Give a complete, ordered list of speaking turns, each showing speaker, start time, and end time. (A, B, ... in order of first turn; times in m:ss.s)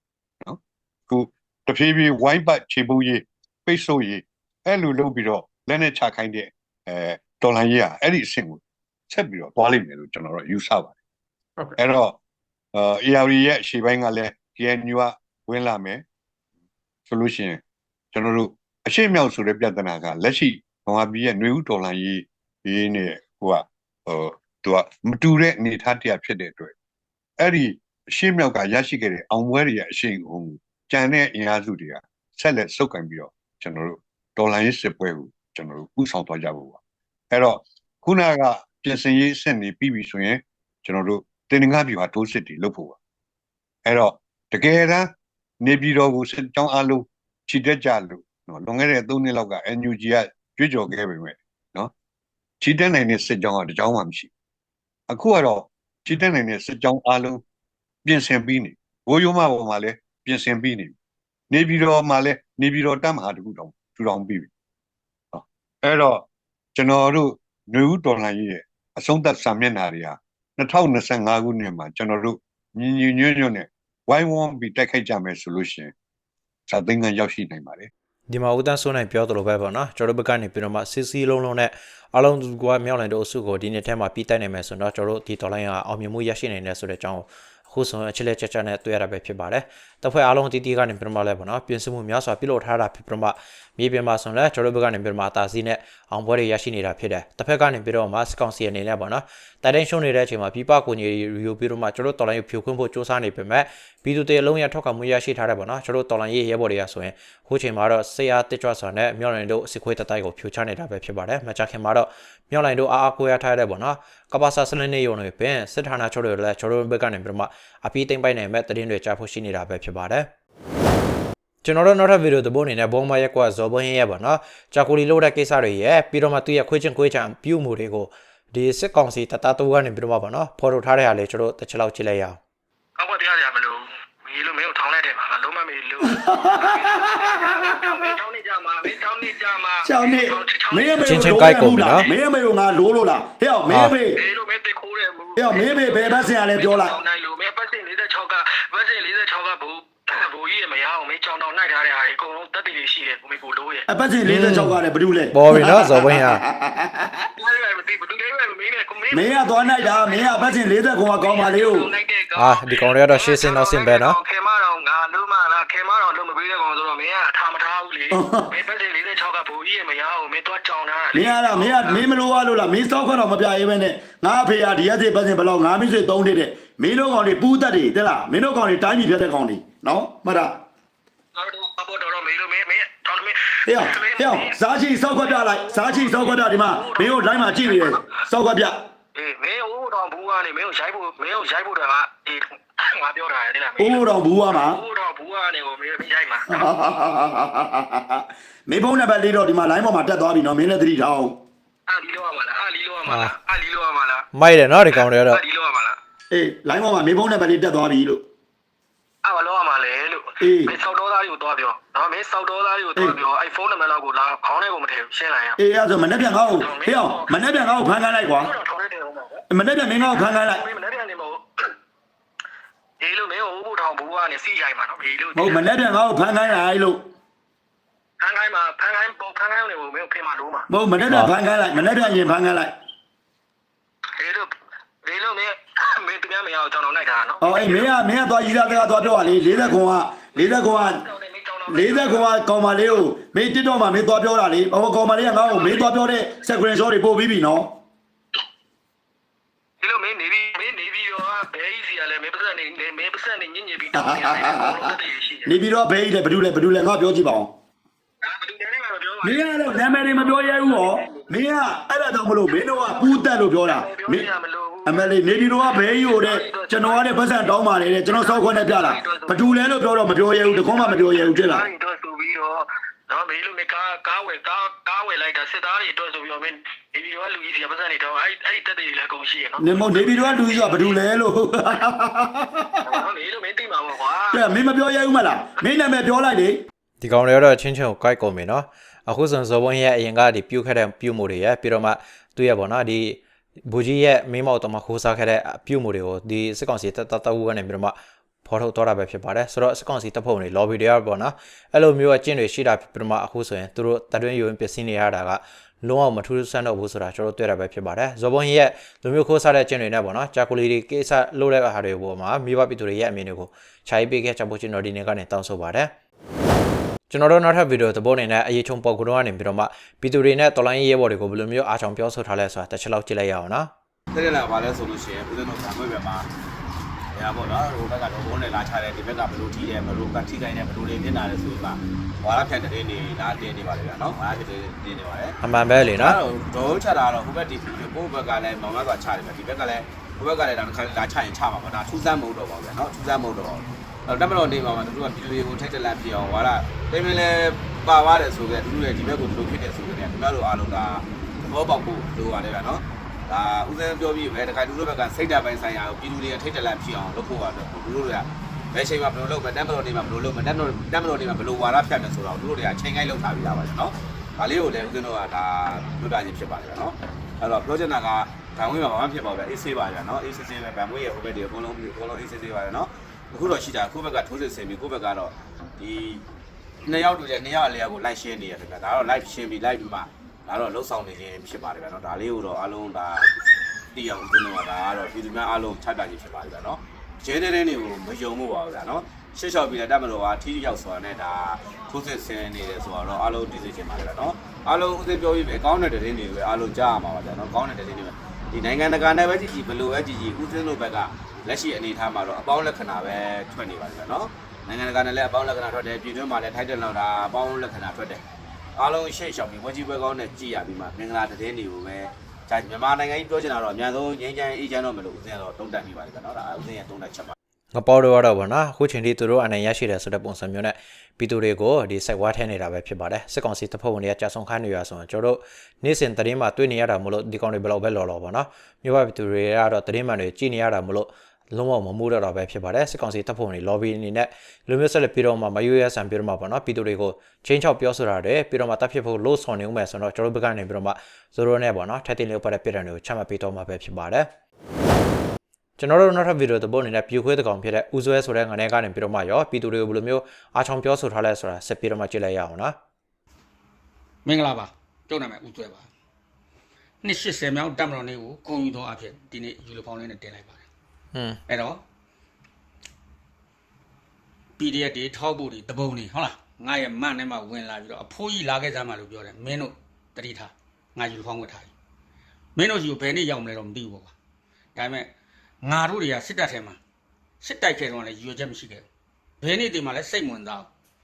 0:00.4-0:10.9 A
0:11.8-0:12.2 A
0:12.7-0:16.0 A
0:17.1-0:17.6 A
0:18.1-0:26.7 A
0:27.4-0:36.8 A
0:37.3-0:43.0 A
0:43.8-0:45.1 A
0:45.6-0:51.9 A
0:52.6-0:54.3 A
0:55.1-0:57.4 A
0:58.0-1:00.9 A
1:01.5-1:04.5 A
1:05.3-1:06.2 A
1:06.7-1:15.9 A
1:16.7-1:17.9 A
1:18.3-2:00.3 B
2:01.6-2:12.4 B
2:13.0-2:21.2 C
2:16.0-2:18.2 D
2:19.8-2:24.2 D
2:21.0-2:22.1 B
2:24.1-2:33.8 C
2:25.4-2:27.0 D
2:33.9-2:37.2 D
2:34.2-2:34.8 B
2:35.3-2:36.4 B
2:37.4-2:40.6 C
2:39.1-2:41.9 D
2:41.2-2:52.0 C
2:42.4-2:44.2 B
2:48.1-2:48.5 D
2:51.1-3:00.6 D
3:01.3-3:04.6 C
3:03.6-3:08.8 D
3:05.1-3:08.2 C
3:09.2-3:16.6 C
3:13.8-3:14.8 D
3:16.5-3:21.4 D
3:21.9-3:24.3 C
3:23.0-3:23.3 B
3:24.3-3:25.4 B
3:24.9-3:26.0 C
3:26.3-3:28.2 D
3:29.2-3:35.6 C
3:30.4-3:30.7 D
3:35.6-3:38.5 D
3:36.5-3:37.3 C
3:38.4-3:39.4 C
3:39.5-3:40.6 D
3:40.2-3:41.7 C
3:43.0-3:45.6 C
3:45.3-3:47.0 D
3:48.2-3:50.7 C
3:50.7-3:52.7 D
3:51.1-3:51.3 B
3:54.2-3:54.5 C
3:55.0-3:59.8 C
3:57.4-4:01.0 D
4:00.3-4:02.3 C
4:01.7-4:07.7 D
4:05.5-4:05.8 C
4:09.8-4:15.5 C
4:13.9-4:17.5 D
4:18.2-4:21.5 C
4:19.2-4:24.3 D
4:22.5-4:27.2 C
4:24.8-4:31.7 D
4:28.1-4:29.6 C
4:30.4-4:41.0 C
4:39.6-4:43.0 D
4:42.8-4:44.4 C
4:44.3-4:46.6 D
4:47.0-5:15.9 B
5:17.1-5:23.7 B
5:24.1-5:26.3 E
5:27.1-5:35.4 E
5:35.4-5:36.2 B
5:35.9-6:16.2 E
6:16.8-6:23.3 E
6:23.9-6:48.2 E
6:48.8-6:57.3 E
6:57.7-7:24.3 B
7:25.8-7:32.8 B
7:34.2-7:35.9 F
7:37.0-7:40.6 F
7:41.1-7:41.4 B
7:41.5-7:41.8 F
7:44.6-7:51.7 F
7:52.5-7:54.1 F
7:54.7-7:55.1 F
7:55.6-7:56.8 F
7:57.4-7:58.8 F
7:59.4-8:00.7 F